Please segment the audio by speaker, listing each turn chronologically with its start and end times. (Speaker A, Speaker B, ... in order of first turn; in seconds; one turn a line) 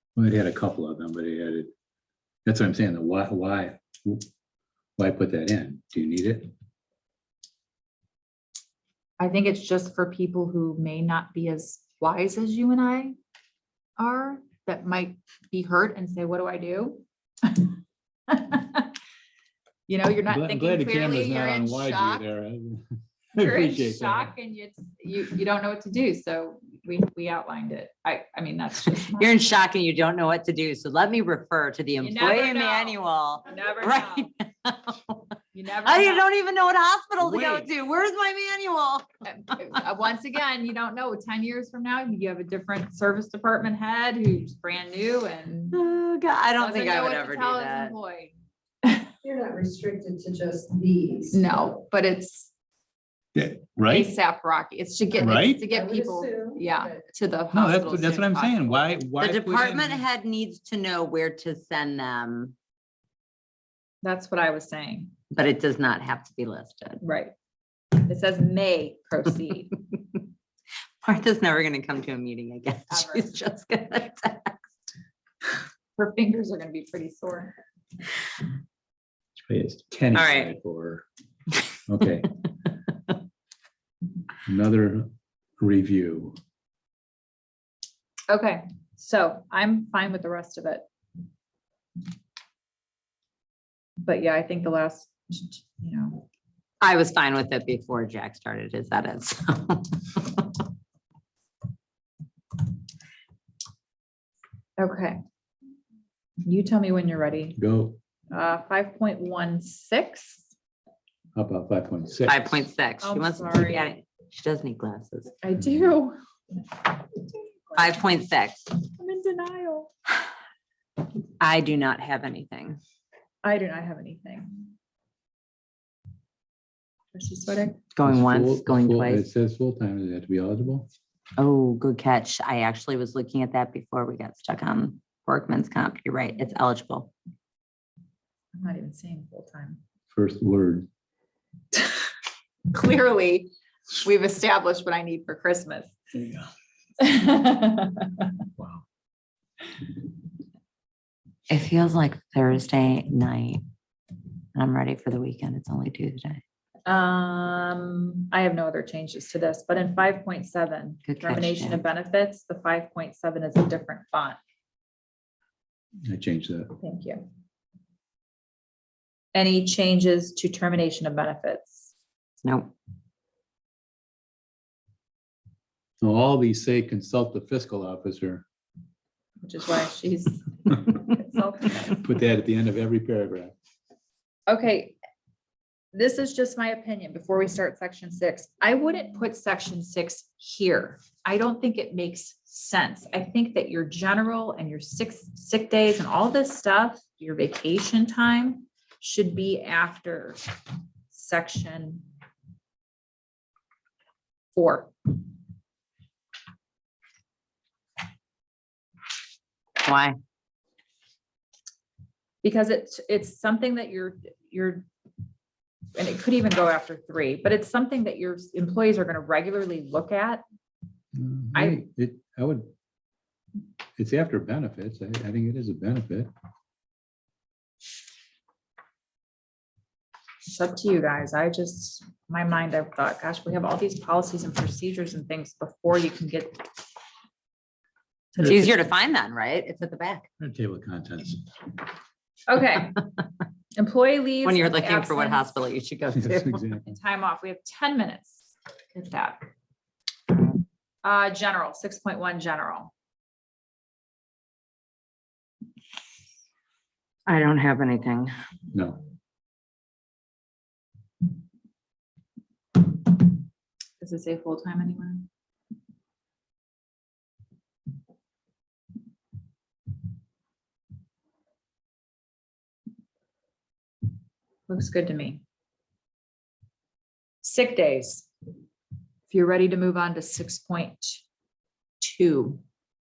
Speaker A: 0.1-1.7
Speaker A: 2.4-4.2
Speaker A: 5.0-6.5
Speaker B: 9.2-13.2
Speaker B: 14.0-17.8
Speaker B: 18.3-18.9
Speaker B: 19.9-22.2
Speaker A: 20.3-24.3
Speaker B: 23.3-29.6
Speaker C: 29.1-35.2
Speaker B: 32.0-34.3
Speaker B: 35.5-36.3
Speaker C: 35.8-39.1
Speaker A: 37.2-37.7
Speaker B: 39.2-45.8
Speaker C: 45.7-47.9
Speaker B: 46.6-48.3
Speaker B: 48.8-49.1
Speaker D: 49.2-51.4
Speaker B: 51.3-52.5
Speaker A: 53.3-54.1
Speaker B: 53.8-58.9
Speaker A: 55.2-55.6
Speaker D: 55.7-56.9
Speaker A: 57.5-60.0
Speaker C: 59.2-62.5
Speaker B: 64.0-65.1
Speaker C: 65.3-67.0
Speaker B: 67.0-67.3
Speaker B: 68.0-69.8
Speaker C: 69.9-70.2
Speaker C: 71.0-74.7
Speaker B: 72.9-73.3
Speaker B: 76.0-77.5
Speaker A: 79.4-81.0
Speaker C: 80.1-80.5
Speaker A: 81.9-82.3
Speaker A: 84.5-85.1
Speaker A: 85.6-86.4
Speaker B: 88.3-90.8
Speaker B: 94.0-96.2
Speaker C: 96.8-100.4
Speaker B: 104.8-105.2
Speaker B: 106.4-107.6
Speaker A: 107.6-108.0
Speaker B: 108.3-110.5
Speaker A: 111.3-112.6
Speaker C: 112.2-115.3
Speaker B: 113.0-113.9
Speaker B: 115.4-116.2
Speaker B: 117.2-118.0
Speaker C: 117.8-118.7
Speaker B: 118.9-119.9
Speaker C: 121.4-122.8
Speaker B: 123.4-124.6
Speaker B: 127.1-127.8
Speaker C: 127.9-129.2
Speaker A: 128.0-130.9
Speaker C: 131.4-137.1
Speaker B: 138.5-139.8
Speaker A: 140.1-140.9
Speaker B: 142.7-145.9
Speaker A: 146.2-146.4
Speaker B: 147.0-148.3
Speaker A: 148.6-148.8
Speaker C: 151.5-153.6
Speaker C: 154.5-156.4
Speaker B: 156.8-164.4
Speaker C: 161.0-161.8
Speaker A: 166.1-166.7
Speaker B: 166.8-167.2
Speaker B: 169.3-171.9
Speaker C: 172.4-172.7
Speaker A: 176.0-178.4
Speaker B: 179.4-182.0
Speaker A: 181.9-183.5
Speaker B: 184.5-185.0
Speaker B: 185.9-200.4
Speaker B: 201.1-202.1
Speaker B: 204.5-204.9
Speaker C: 209.8-210.2
Speaker B: 212.4-214.9
Speaker B: 215.9-220.4
Speaker A: 221.1-222.7
Speaker B: 221.5-221.8
Speaker A: 224.0-226.3
Speaker B: 230.4-236.7
Speaker C: 238.4-240.3
Speaker B: 238.4-238.7
Speaker A: 240.4-241.4
Speaker B: 242.5-243.0
Speaker B: 243.8-245.5
Speaker C: 244.4-246.7
Speaker A: 246.1-246.9
Speaker B: 246.8-249.4
Speaker B: 251.0-252.9
Speaker C: 257.3-258.3
Speaker A: 258.7-259.0
Speaker B: 264.0-265.2
Speaker B: 274.7-275.4
Speaker B: 277.4-278.3
Speaker B: 279.3-281.2
Speaker B: 282.0-282.6